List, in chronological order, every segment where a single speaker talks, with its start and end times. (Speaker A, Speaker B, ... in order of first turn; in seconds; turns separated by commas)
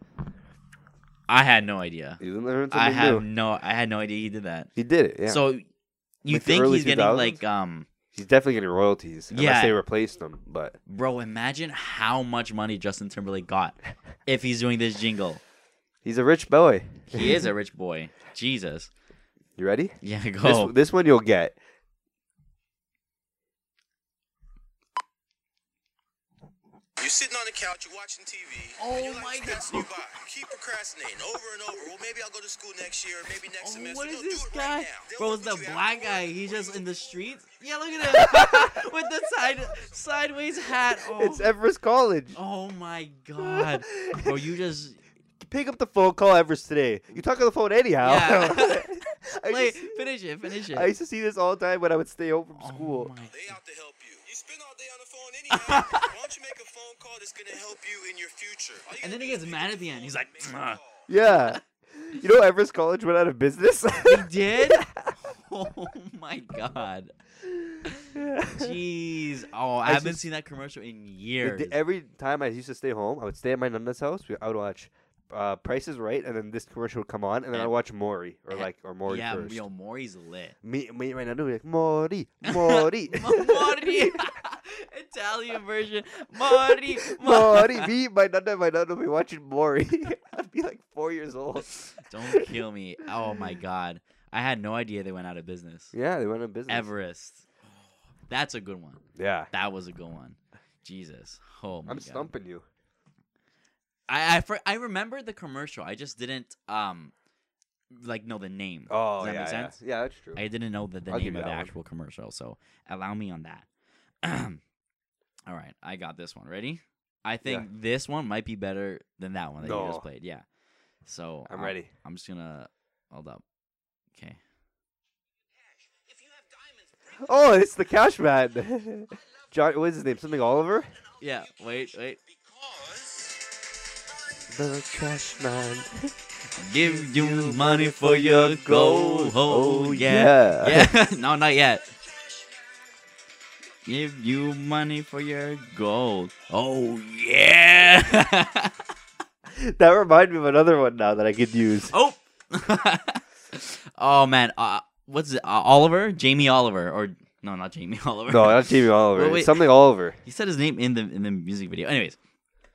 Speaker A: 1.3-2.2, Speaker B: 2.2-3.2, Speaker A: 2.7-4.7, Speaker B: 4.8-5.4, Speaker A: 5.3-5.6, Speaker A: 6.2-7.9, Speaker B: 6.3-7.4, Speaker B: 8.1-10.8, Speaker A: 9.3-9.8, Speaker A: 10.9-15.4, Speaker B: 16.0-17.4, Speaker A: 17.1-18.9, Speaker B: 19.6-21.6, Speaker A: 20.0-20.7, Speaker C: 27.0-36.4, Speaker A: 28.8-29.9, Speaker A: 33.6-41.5, Speaker B: 41.1-42.4, Speaker A: 42.4-45.0, Speaker B: 43.4-44.4, Speaker B: 45.4-50.0, Speaker A: 48.0-50.9, Speaker B: 50.7-53.1, Speaker A: 52.6-53.5, Speaker C: 53.3-61.0, Speaker A: 55.5-56.1, Speaker A: 59.0-61.6, Speaker B: 61.1-65.1, Speaker A: 63.9-67.1, Speaker A: 67.8-71.8, Speaker B: 68.1-68.8, Speaker B: 69.8-70.2, Speaker B: 71.4-79.7, Speaker A: 78.5-80.5, Speaker B: 80.6-84.3, Speaker A: 82.4-87.9, Speaker B: 86.4-92.5, Speaker A: 92.1-95.9, Speaker B: 95.9-96.9, Speaker A: 96.7-97.5, Speaker A: 98.3-102.3, Speaker B: 99.2-99.5, Speaker B: 101.9-102.6, Speaker A: 104.1-107.1, Speaker A: 107.9-109.8, Speaker B: 108.9-110.4, Speaker A: 110.3-113.7, Speaker B: 111.1-111.7, Speaker A: 114.2-114.6, Speaker A: 115.5-120.4, Speaker B: 119.6-120.0, Speaker A: 121.0-123.4, Speaker B: 121.5-121.9, Speaker B: 127.2-130.9, Speaker A: 131.2-132.2, Speaker B: 134.5-136.1, Speaker A: 136.6-141.9, Speaker B: 136.8-140.9, Speaker A: 143.9-148.7, Speaker B: 149.5-151.9, Speaker A: 151.9-159.6, Speaker B: 158.3-160.2, Speaker A: 160.2-162.2